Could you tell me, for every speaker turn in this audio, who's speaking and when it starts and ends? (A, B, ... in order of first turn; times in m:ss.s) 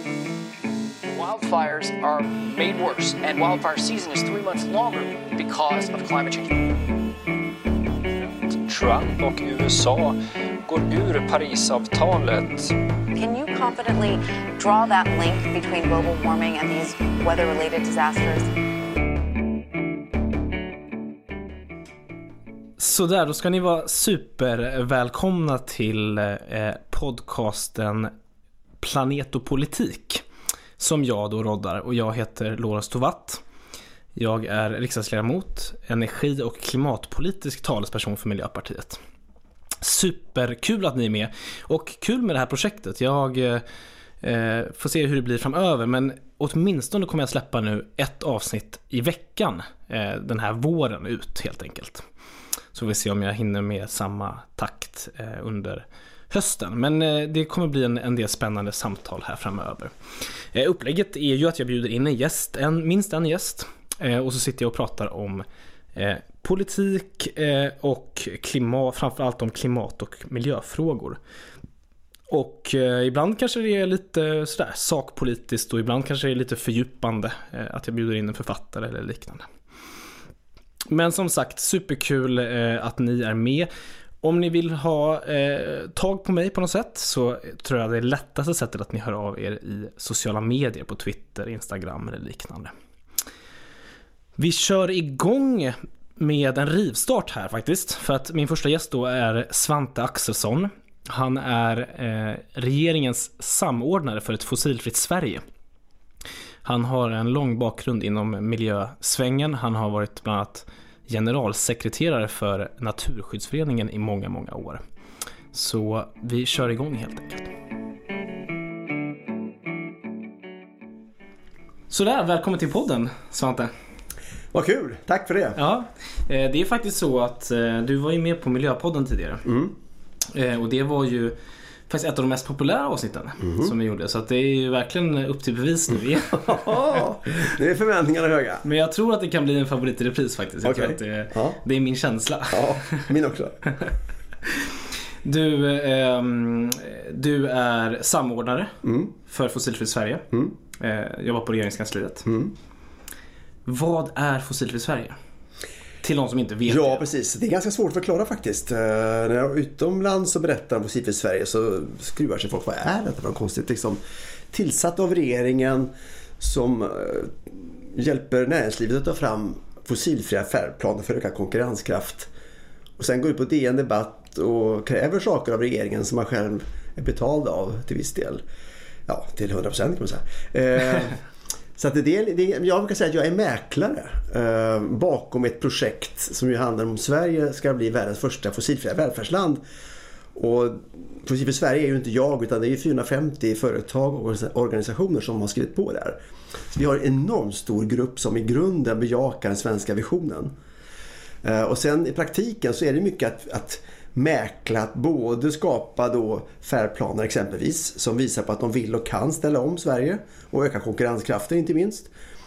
0:01.1-0:06.9 A
0:08.2-0:12.8 B
0:13.1-0:18.5 C
0:22.8-0:28.1 D
0:28.8-0:30.2 D
0:30.8-0:33.4 D
0:34.1-0:39.0 D
0:39.8-0:43.6 D
0:44.2-0:52.0 D
0:52.7-1:11.2 D
1:12.3-1:19.5 D
1:20.9-1:23.7 D
1:24.2-1:32.7 D
1:34.4-1:45.4 D
1:46.6-1:54.8 D
1:55.5-1:57.5 D
2:01.9-2:03.7 D
2:04.5-2:05.6 E
2:05.6-2:09.4 D
2:09.4-2:09.7 E
2:10.3-2:11.4 D
2:11.9-2:16.7 D
2:13.4-2:13.7 E
2:16.3-2:18.6 E
2:18.6-2:23.0 D
2:20.6-2:21.6 E
2:22.5-2:23.6 E
2:25.2-2:30.2 D
2:28.8-2:29.1 E
2:30.8-2:32.2 D
2:32.2-2:32.5 E
2:33.7-2:35.2 D
2:36.0-2:37.1 D
2:36.7-2:44.0 E
2:44.5-2:52.3 E
2:53.0-2:58.4 E
2:59.1-3:01.2 E
3:01.8-3:09.6 E
3:10.3-3:16.2 E
3:16.7-3:20.5 E
3:21.4-3:32.1 E